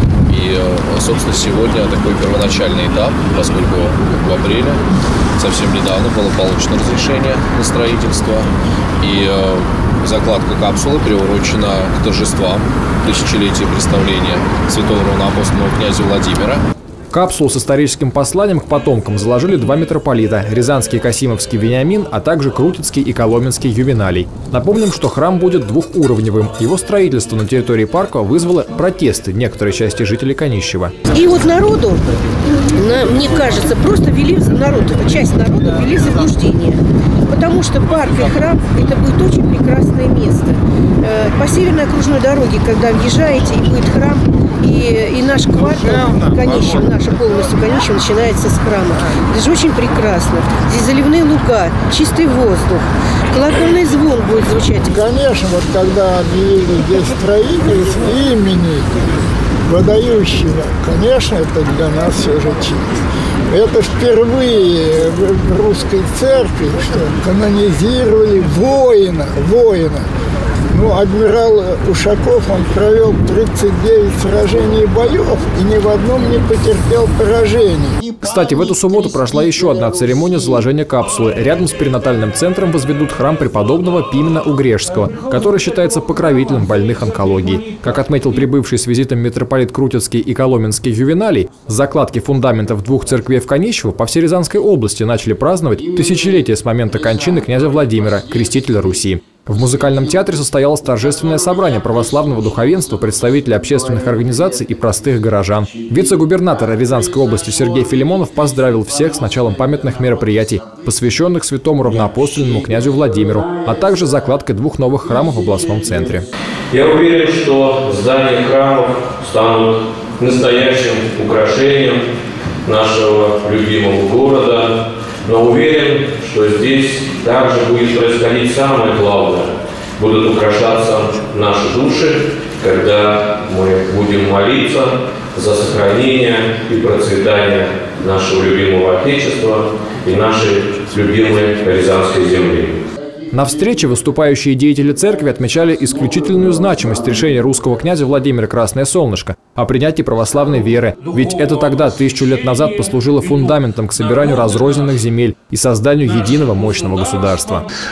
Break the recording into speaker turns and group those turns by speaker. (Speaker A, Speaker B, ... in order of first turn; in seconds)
Speaker A: 0.3-4.8, 5.4-8.5, 9.0-16.6
Speaker B: 17.1-30.9, 78.2-116.2, 143.3-157.7
Speaker C: 31.1-32.0, 32.6-54.9
Speaker D: 54.9-59.0, 59.6-70.1, 70.7-78.1
Speaker E: 116.7-122.0, 122.6-142.8